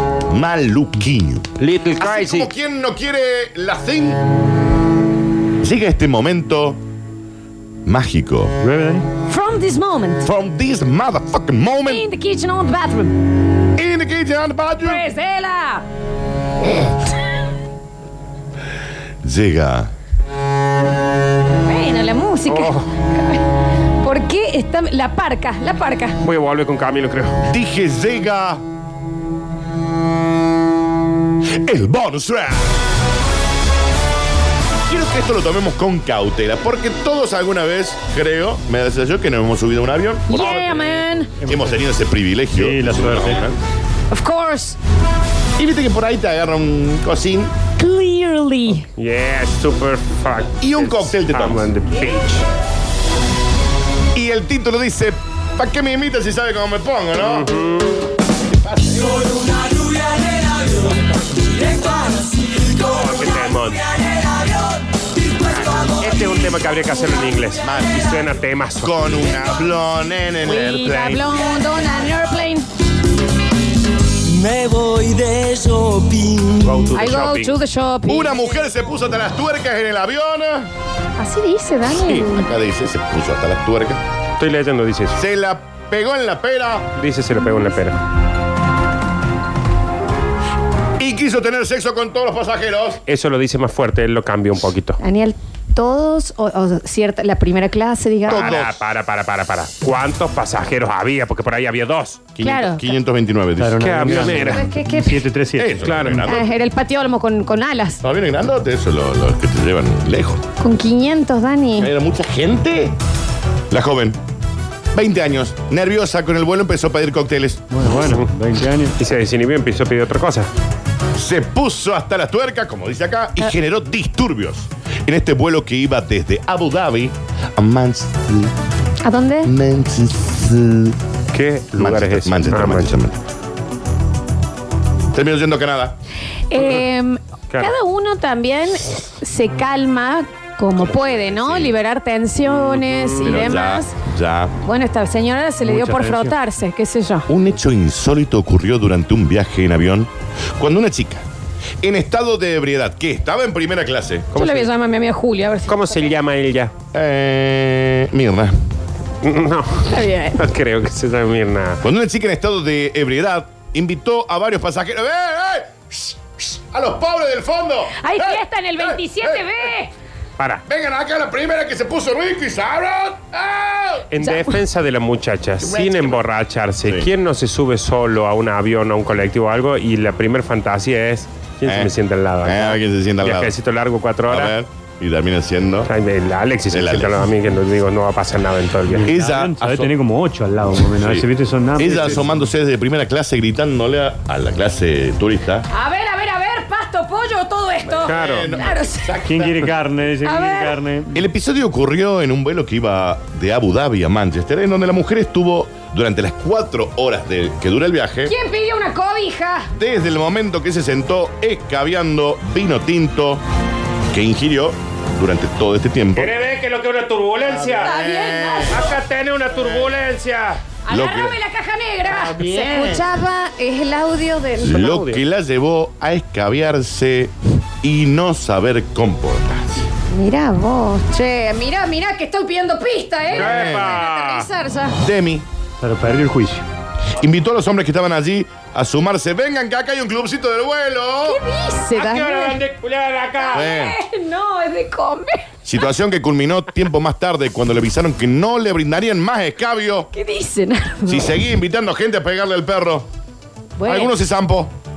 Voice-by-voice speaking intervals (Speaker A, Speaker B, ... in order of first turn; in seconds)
Speaker A: 0.3-4.2, 5.6-6.8, 7.9-8.6, 10.2-12.1, 13.8-15.0, 19.2-19.9, 27.5-28.6, 31.6-32.7, 34.9-40.7, 41.4-43.6, 45.6-47.5, 50.6-51.7, 54.1-57.5, 58.4-59.2, 67.6-68.2, 68.8-71.3, 78.1-80.7, 81.9-84.0, 85.1-86.9, 91.0-93.0, 98.3-98.7, 102.3-104.4, 105.6-106.5, 108.0-110.4, 111.8-113.0, 113.7-114.2, 114.9-117.7, 121.2-128.5, 129.4-131.0, 131.7-133.2, 135.1-135.9, 140.7-141.8, 143.2-144.6, 147.3-151.2, 151.8-154.3, 156.9-158.5, 161.8-169.7, 170.7-174.1, 175.6-176.2, 176.8-177.1, 181.6-183.5, 184.3-185.9, 186.7-187.2, 189.0-189.9, 191.0-195.7, 197.8-199.8, 201.1-208.3, 209.7-213.4, 214.1-216.3, 217.4-218.9, 220.9-221.4, 222.1-223.0, 224.6-229.9, 233.4-234.0, 235.0-235.4, 237.2-241.4, 243.5-244.0, 245.7-250.1, 251.1-253.1, 253.8-254.7
Speaker B: 1.6-2.5, 22.5-22.9, 26.2-27.4, 40.3-41.0, 49.0-52.5, 57.2-58.0, 62.4-64.4, 65.7-68.9, 76.6-77.6, 84.4-85.2, 87.0-88.0, 93.1-95.0, 98.3-102.3, 103.8-104.7, 105.8-106.3, 118.0-118.3, 119.0-120.5, 131.3-132.9, 136.6-136.8, 142.7-143.5, 154.3-154.7, 155.7-156.7, 159.2-161.8, 170.4-170.6, 174.1-184.6, 185.9-189.1, 198.0-198.6, 216.2-217.9, 218.7-220.6, 222.2-222.8, 224.7-225.2, 233.3-234.5, 241.9-243.7
Speaker C: 8.6-9.1, 41.4-41.7, 42.5-43.5, 103.6-106.3, 117.7-119.0, 145.6-146.4, 188.9-192.4, 199.2-201.2, 235.8-236.6
Speaker D: 9.3-10.2, 11.9-13.2, 14.8-15.8, 21.7-23.4, 24.0-26.2, 40.3-41.3, 44.1-44.8, 47.8-48.9, 70.4-72.7, 76.9-78.5, 81.2-82.5, 95.0-98.6, 102.4-102.9, 104.3-105.2, 106.2-108.0, 110.6-111.9, 129.0-129.5, 136.5-143.9, 144.6-147.3, 154.3-156.1, 159.9-160.4, 167.9-169.9, 174.2-174.6, 195.7-199.2, 200.2-200.8, 208.2-209.7, 217.8-218.8, 220.9-224.8, 230.1-235.0, 241.2-242.6, 243.4-245.5, 250.1-251.4, 253.8-254.1